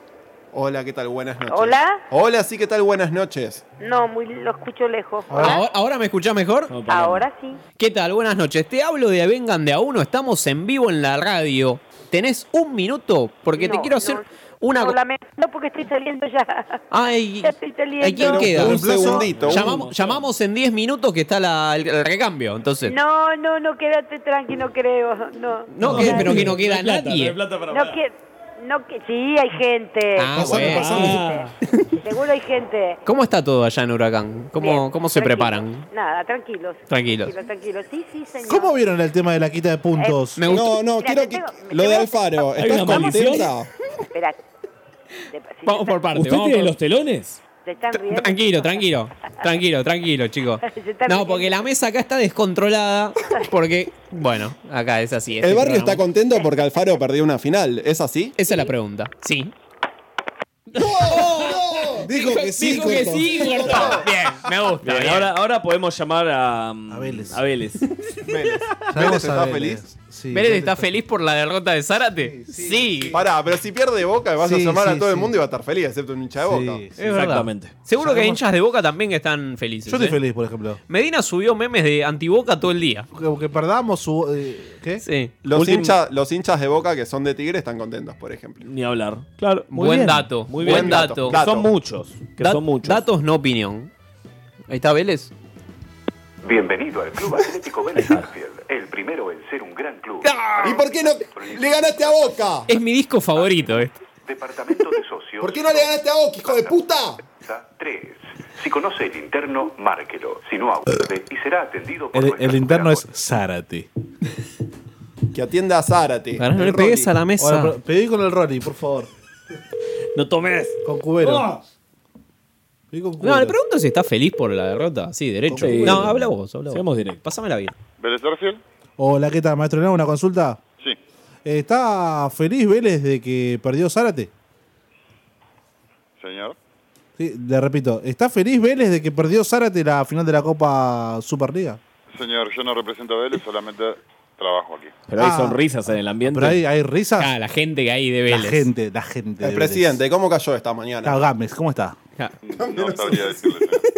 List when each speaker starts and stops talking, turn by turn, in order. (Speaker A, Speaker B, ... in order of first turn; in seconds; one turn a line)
Speaker A: 0.5-3.6
Speaker B: 1.5-2.0
Speaker B: 3.8-5.7
Speaker C: 5.3-5.6
Speaker D: 5.4-6.7
Speaker E: 6.7-7.3
Speaker B: 6.9-7.6
Speaker D: 7.8-15.0
Speaker B: 13.5-16.8
Speaker D: 16.9-18.9
Speaker B: 17.4-19.2
Speaker A: 18.2-19.8
Speaker C: 18.5-19.3
Speaker E: 19.3-20.3
Speaker D: 19.5-22.9
Speaker B: 22.9-26.3
Speaker D: 25.7-27.4
Speaker E: 25.8-28.0
Speaker C: 25.9-26.4
Speaker B: 27.7-33.0
Speaker D: 30.2-31.2
Speaker C: 30.3-31.2
Speaker E: 30.7-31.5
Speaker D: 33.1-35.9
Speaker B: 34.6-38.8
Speaker D: 36.9-37.3
Speaker C: 38.5-40.4
Speaker B: 40.0-42.5
Speaker D: 40.4-40.8
Speaker A: 40.5-43.7
Speaker E: 42.6-43.5
Speaker B: 44.1-44.4
Speaker B: 45.3-46.1
Speaker D: 45.6-46.7
Speaker E: 46.1-47.4
Speaker B: 47.6-48.9
Speaker D: 47.9-56.0
Speaker B: 50.6-51.7
Speaker A: 55.4-58.4
Speaker D: 58.4-59.5
Speaker D: 60.7-65.3
Speaker A: 60.9-61.9
Speaker C: 62.0-64.1
Speaker A: 62.8-64.0
Speaker E: 64.8-67.8
Speaker C: 66.9-67.4
Speaker A: 68.3-69.8
Speaker C: 68.9-70.9
Speaker D: 70.3-73.2
Speaker C: 72.2-73.3
Speaker A: 73.1-76.8
Speaker C: 74.4-75.3
Speaker C: 76.4-76.9
Speaker D: 77.0-80.2
Speaker E: 77.0-77.7
Speaker C: 78.0-78.4
Speaker C: 79.9-80.8
Speaker D: 80.9-83.1
Speaker C: 83.1-85.0
Speaker D: 85.0-85.9
Speaker A: 85.5-88.7
Speaker E: 88.6-93.0
Speaker D: 89.7-91.4
Speaker A: 90.6-91.7
Speaker D: 92.4-93.9
Speaker D: 94.7-95.3
Speaker F: 96.4-100.3
Speaker E: 98.0-98.3
Speaker D: 100.2-100.7
Speaker A: 100.6-102.7
Speaker F: 101.3-101.9
Speaker D: 102.7-104.0
Speaker F: 104.2-113.1
Speaker A: 105.4-107.2
Speaker C: 112.1-113.9
Speaker A: 115.3-117.1
Speaker D: 116.4-117.8
Speaker C: 117.4-119.1
Speaker E: 120.2-120.8
Speaker C: 120.8-121.6
Speaker C: 122.9-123.6
Speaker D: 123.2-127.7
Speaker C: 125.5-126.1
Speaker E: 125.6-127.2
Speaker G: 128.0-128.6
Speaker C: 129.0-130.6
Speaker C: 131.4-134.3
Speaker G: 136.2-136.6
Speaker C: 137.2-141.8
Speaker G: 142.1-144.9
Speaker E: 145.1-146.6
Speaker C: 145.2-145.6
Speaker C: 146.2-147.3
Speaker D: 147.2-148.7
Speaker C: 148.3-150.0
Speaker A: 149.4-151.2
Speaker C: 151.0-152.0
Speaker G: 152.5-153.8
Speaker A: 152.6-153.4